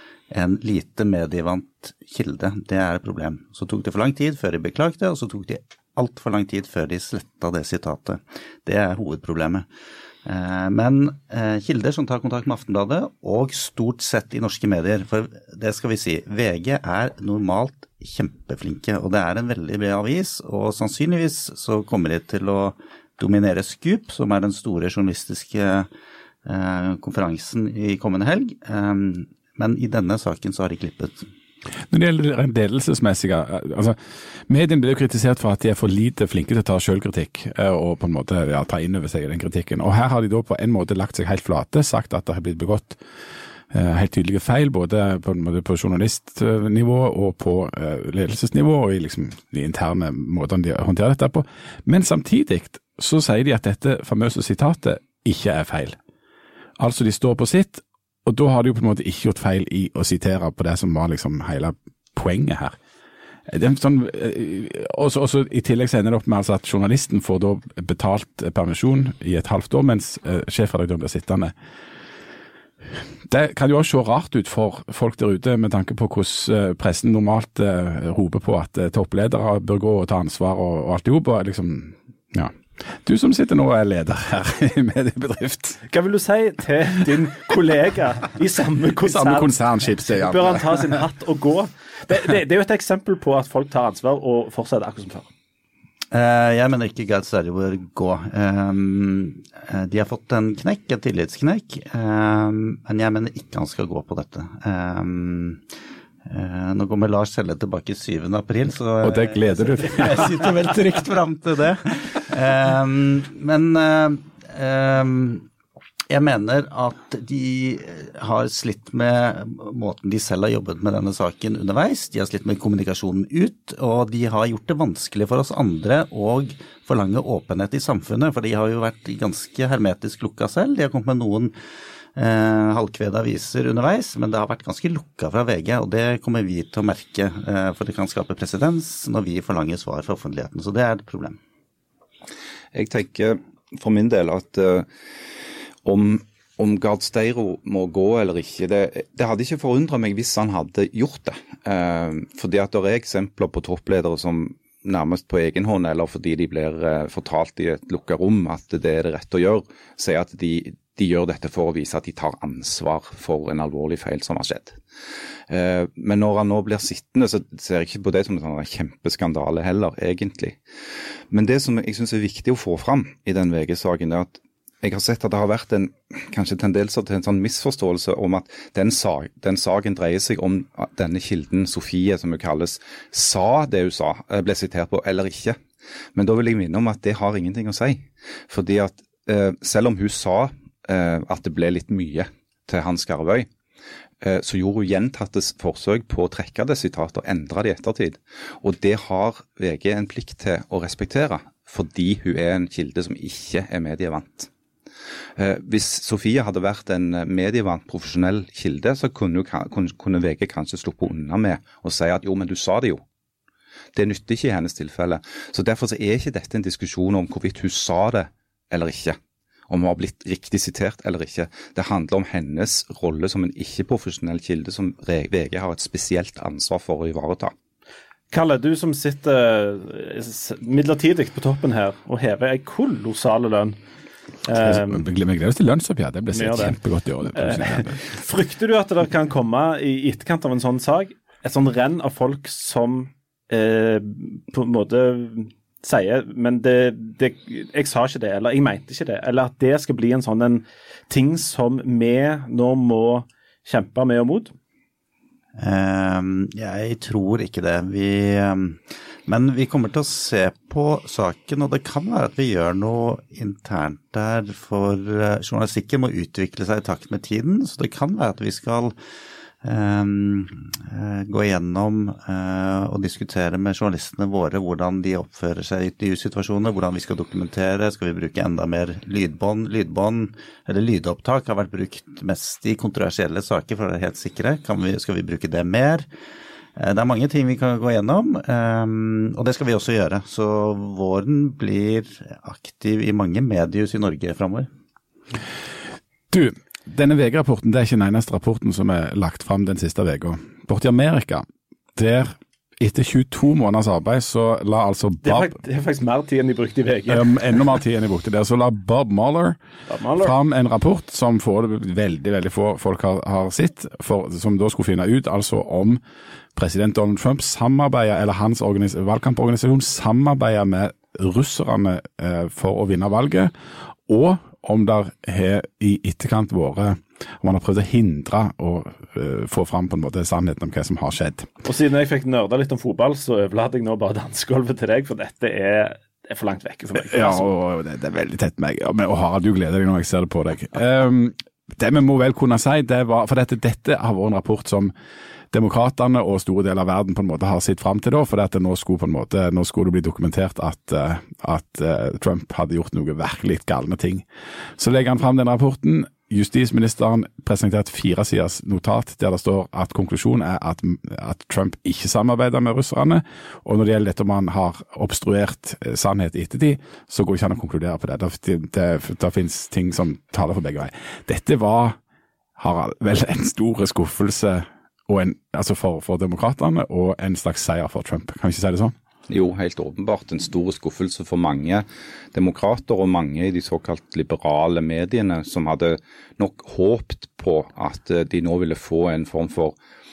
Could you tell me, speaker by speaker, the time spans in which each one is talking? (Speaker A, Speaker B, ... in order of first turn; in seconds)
Speaker A: 0.3-9.7, 10.2-25.9, 26.4-31.2, 96.1-105.6, 106.2-115.5, 116.1-131.5, 132.1-141.4, 255.6-268.9, 269.6-286.1, 286.8-294.7
Speaker B: 31.9-34.0, 34.5-43.0, 43.7-56.0, 56.8-62.8, 63.5-71.5, 73.3-85.8, 89.0-91.0, 109.0-110.5, 234.6-237.9, 296.3-301.4, 301.9-305.5, 307.1-309.6, 310.2-316.0, 316.5-323.5, 324.1-331.5, 337.0-344.9, 345.5-354.2, 354.8-372.0, 372.6-378.9
Speaker C: 85.9-89.5, 90.0-95.3, 228.3-233.8, 234.4-235.0, 236.3-236.8, 237.3-254.5, 305.2-307.3, 309.9-310.3, 331.6-337.5
Speaker D: 142.7-144.9, 145.8-164.8, 165.5-170.6, 171.3-185.6, 186.1-193.5, 194.2-204.5, 205.4-213.0, 213.9-219.2, 219.7-227.5, 379.3-389.7